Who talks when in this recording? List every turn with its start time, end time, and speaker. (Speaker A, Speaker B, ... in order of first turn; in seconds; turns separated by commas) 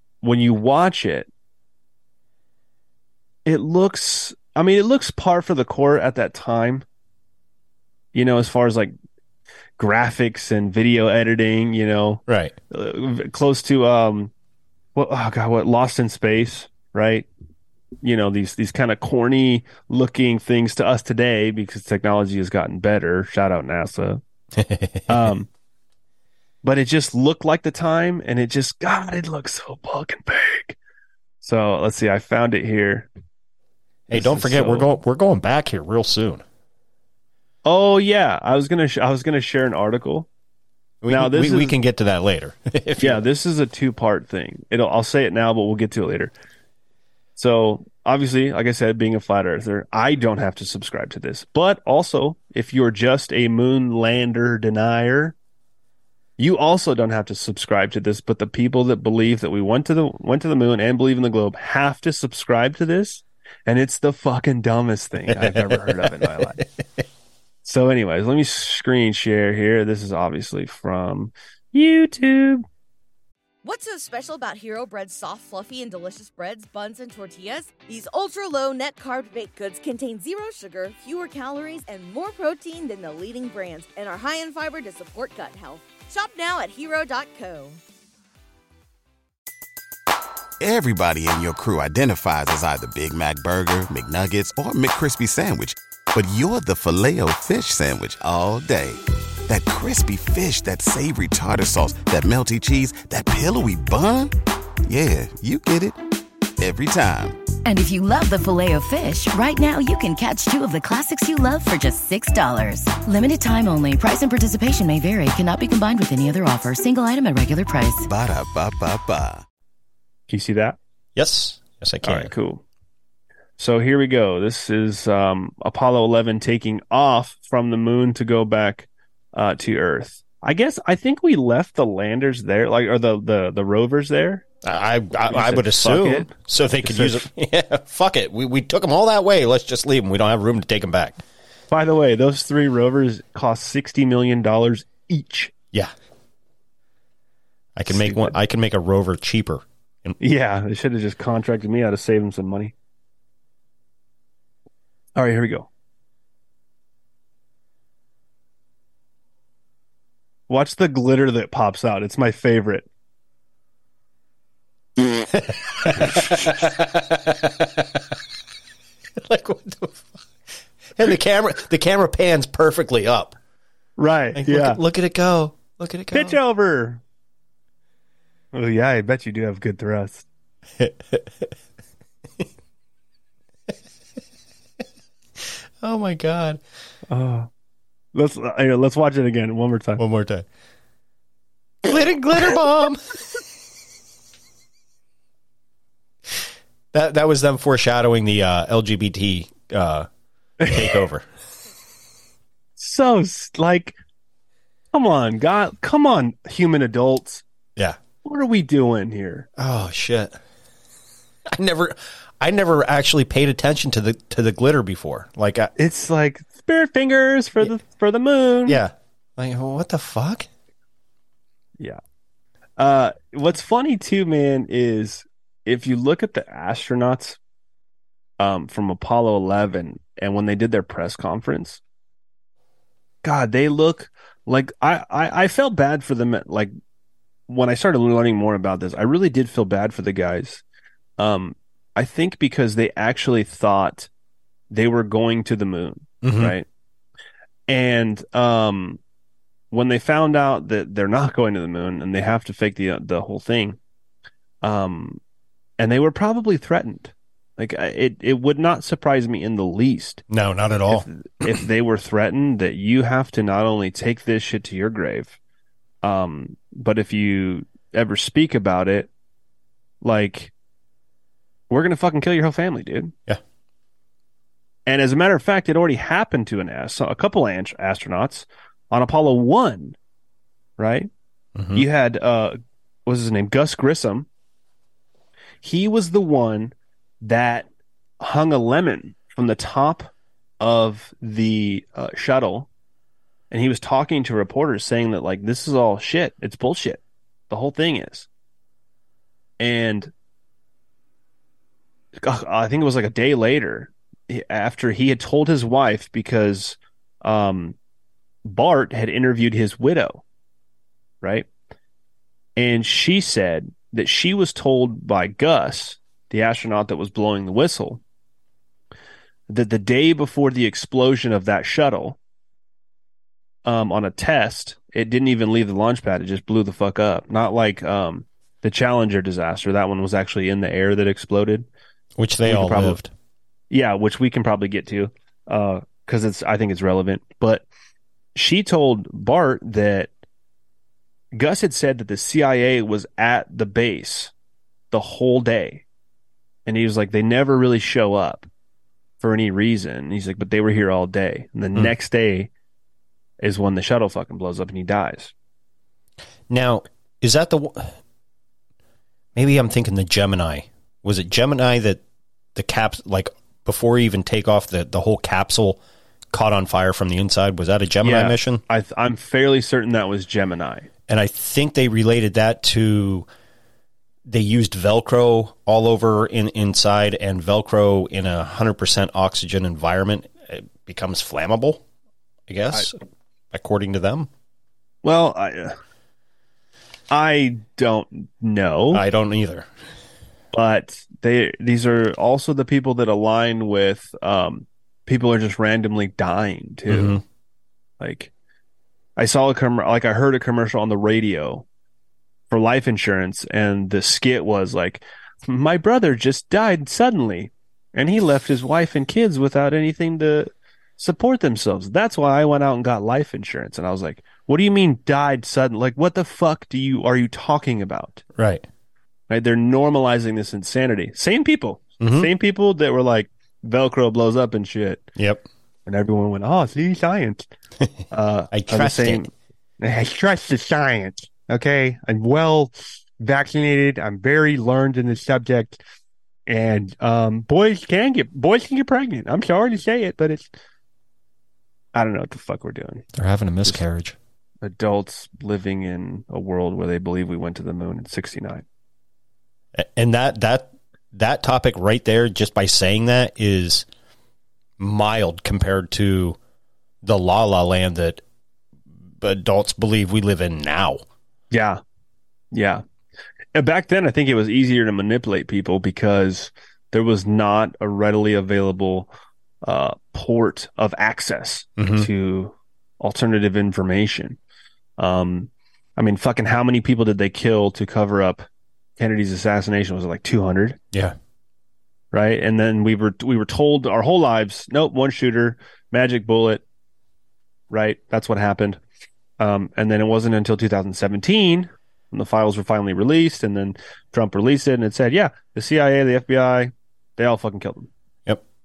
Speaker A: 0.2-1.3, Speaker A: 3.5-6.8, Speaker A: 8.1-8.9, Speaker A: 9.8-14.3, Speaker B: 12.3-12.5, Speaker A: 14.9-17.3, Speaker A: 18.0-24.2, Speaker B: 24.6-25.3, Speaker A: 25.1-25.5, Speaker A: 26.6-30.8, Speaker A: 31.4-33.1, Speaker B: 34.1-36.4, Speaker A: 34.1-34.9, Speaker A: 37.6-40.3, Speaker B: 41.0-43.2, Speaker A: 41.1-41.7, Speaker A: 43.0-46.3, Speaker A: 47.4-55.3, Speaker A: 56.4-66.6, Speaker B: 65.3-66.6, Speaker A: 67.6-72.6, Speaker C: 73.6-87.8, Speaker D: 90.6-104.3, Speaker D: 104.9-106.0, Speaker D: 106.6-107.4, Speaker E: 107.6-118.1, Speaker D: 118.1-119.4, Speaker A: 120.3-120.8, Speaker B: 121.2-122.3, Speaker A: 122.0-122.6, Speaker A: 123.6-134.4, Speaker B: 134.6-141.2, Speaker A: 135.3-136.3, Speaker A: 136.8-137.3, Speaker A: 141.7-145.5, Speaker B: 147.8-150.2, Speaker A: 147.9-148.3, Speaker A: 150.2-152.7, Speaker A: 155.2-155.7, Speaker A: 160.5-162.9, Speaker B: 165.1-168.0, Speaker B: 169.2-170.2, Speaker B: 170.9-173.3, Speaker A: 174.0-174.8, Speaker B: 174.3-176.4, Speaker A: 176.1-177.0, Speaker A: 178.5-180.2, Speaker B: 180.8-181.5, Speaker B: 185.4-186.6, Speaker A: 187.1-187.5, Speaker A: 188.1-190.0, Speaker B: 190.0-190.4, Speaker B: 191.8-193.2, Speaker B: 196.9-200.1, Speaker A: 200.6-201.0, Speaker B: 200.6-201.2, Speaker A: 202.8-203.9, Speaker A: 204.9-207.4, Speaker A: 208.2-209.5, Speaker B: 209.6-210.3, Speaker B: 211.5-215.7, Speaker A: 215.8-218.8, Speaker B: 218.7-220.5, Speaker A: 222.8-227.4, Speaker A: 228.4-231.8, Speaker A: 233.2-236.7, Speaker A: 237.5-240.6, Speaker A: 241.2-244.1, Speaker A: 244.7-246.7, Speaker B: 246.2-246.6, Speaker A: 247.7-249.0, Speaker A: 249.7-253.8, Speaker A: 254.6-255.2, Speaker A: 255.8-260.2, Speaker B: 260.3-261.6, Speaker A: 260.9-265.4, Speaker A: 266.0-269.1, Speaker A: 270.0-270.5, Speaker A: 271.7-273.1, Speaker A: 274.9-279.9, Speaker A: 280.8-281.1, Speaker B: 281.6-281.8, Speaker A: 281.7-284.3, Speaker A: 285.6-287.7, Speaker A: 288.2-292.7, Speaker A: 293.5-298.3, Speaker A: 299.6-300.1, Speaker A: 302.2-307.8, Speaker A: 308.4-310.2, Speaker A: 311.2-311.5, Speaker A: 312.6-318.0, Speaker A: 319.5-322.2, Speaker A: 323.6-331.7, Speaker B: 332.2-333.1, Speaker A: 332.4-333.0, Speaker A: 333.7-337.7, Speaker A: 338.3-340.1, Speaker A: 341.3-344.3, Speaker A: 344.9-345.8, Speaker A: 346.6-348.5, Speaker A: 349.2-352.5, Speaker A: 353.4-355.3, Speaker B: 356.5-358.0, Speaker B: 359.3-362.0, Speaker B: 362.5-365.8, Speaker B: 366.3-368.6, Speaker A: 368.0-370.9, Speaker B: 371.1-373.3, Speaker B: 374.3-381.8, Speaker B: 382.5-383.0, Speaker B: 383.5-384.3, Speaker A: 385.0-385.7, Speaker A: 387.1-389.0, Speaker B: 388.9-389.7, Speaker A: 390.5-397.2, Speaker B: 396.9-397.2, Speaker A: 398.0-398.3, Speaker A: 399.2-401.6, Speaker A: 402.5-418.2, Speaker B: 418.4-418.6, Speaker A: 419.3-425.1, Speaker B: 422.0-422.3, Speaker B: 425.2-425.4, Speaker A: 425.9-427.4, Speaker A: 428.1-429.3, Speaker B: 428.5-429.3, Speaker A: 429.8-435.8, Speaker A: 436.5-440.5, Speaker A: 441.9-443.0, Speaker B: 443.1-444.1, Speaker A: 444.6-448.6, Speaker B: 449.8-453.9, Speaker B: 454.8-456.4, Speaker B: 457.0-458.2, Speaker B: 459.2-461.0, Speaker A: 461.5-461.8, Speaker A: 462.5-462.8, Speaker A: 463.5-469.1, Speaker A: 469.6-474.4, Speaker B: 471.8-472.1, Speaker A: 475.0-478.4, Speaker A: 479.0-480.8, Speaker A: 482.1-486.6, Speaker A: 487.7-488.8, Speaker A: 489.4-497.9